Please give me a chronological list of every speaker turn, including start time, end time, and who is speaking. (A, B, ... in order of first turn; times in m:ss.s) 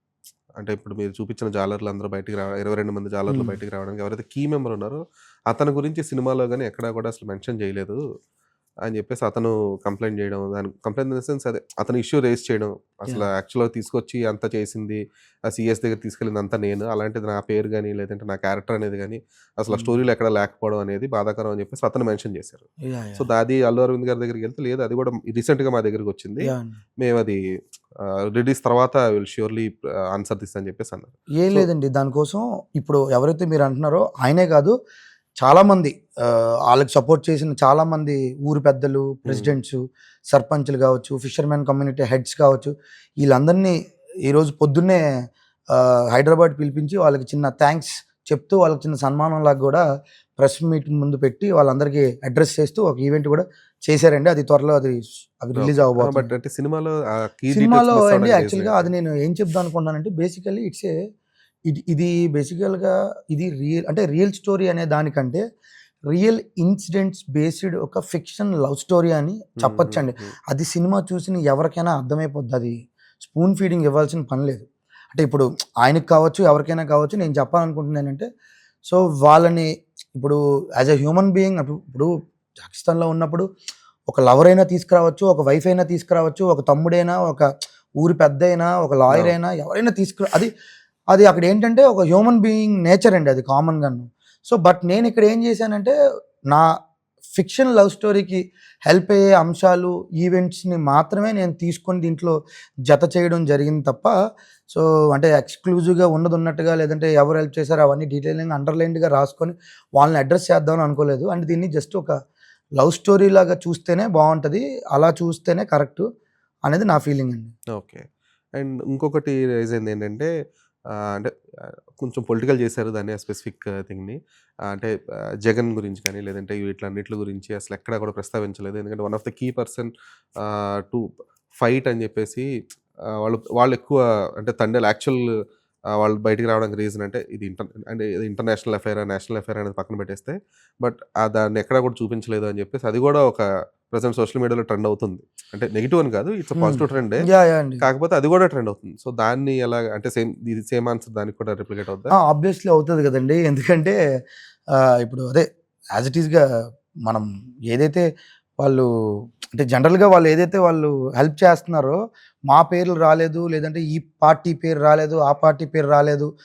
0:00.6-0:08.0 A
0:03.3-0:03.6 B
0:08.9-0:22.7 A
0:19.7-0:20.0 B
0:22.9-0:23.3 B
0:23.2-0:26.5 A
0:26.4-0:26.8 B
0:27.0-0:27.4 A
0:28.3-0:31.7 A
0:31.4-0:34.7 B
0:35.4-0:39.8 B
0:39.3-0:39.6 A
0:40.3-0:43.7 B
0:44.3-0:45.0 B
0:45.7-0:49.8 B
0:50.4-0:56.3 B
0:55.6-0:58.9 A
0:57.5-1:00.9 B
1:01.7-1:05.4 B
1:06.1-1:18.3 B
1:09.6-1:10.3 A
1:18.9-1:23.4 B
1:24.1-1:27.5 B
1:28.0-1:30.5 B
1:29.1-1:29.4 A
1:31.1-1:35.9 B
1:37.4-1:42.3 B
1:42.9-1:44.1 B
1:44.7-1:52.1 B
1:52.8-1:56.0 B
1:56.7-1:57.5 B
1:57.7-1:58.0 A
1:58.6-2:00.3 A
2:02.0-2:04.2 A
2:05.4-2:09.9 A
2:10.4-2:11.1 A
2:11.6-2:12.5 A
2:13.2-2:15.2 A
2:16.0-2:27.2 A
2:26.6-2:27.8 B
2:27.8-2:32.1 A
2:32.1-2:34.0 B
2:34.8-2:36.4 B
2:37.1-2:38.0 B
2:38.6-2:38.9 B
2:39.5-2:42.0 B
2:42.5-2:46.3 B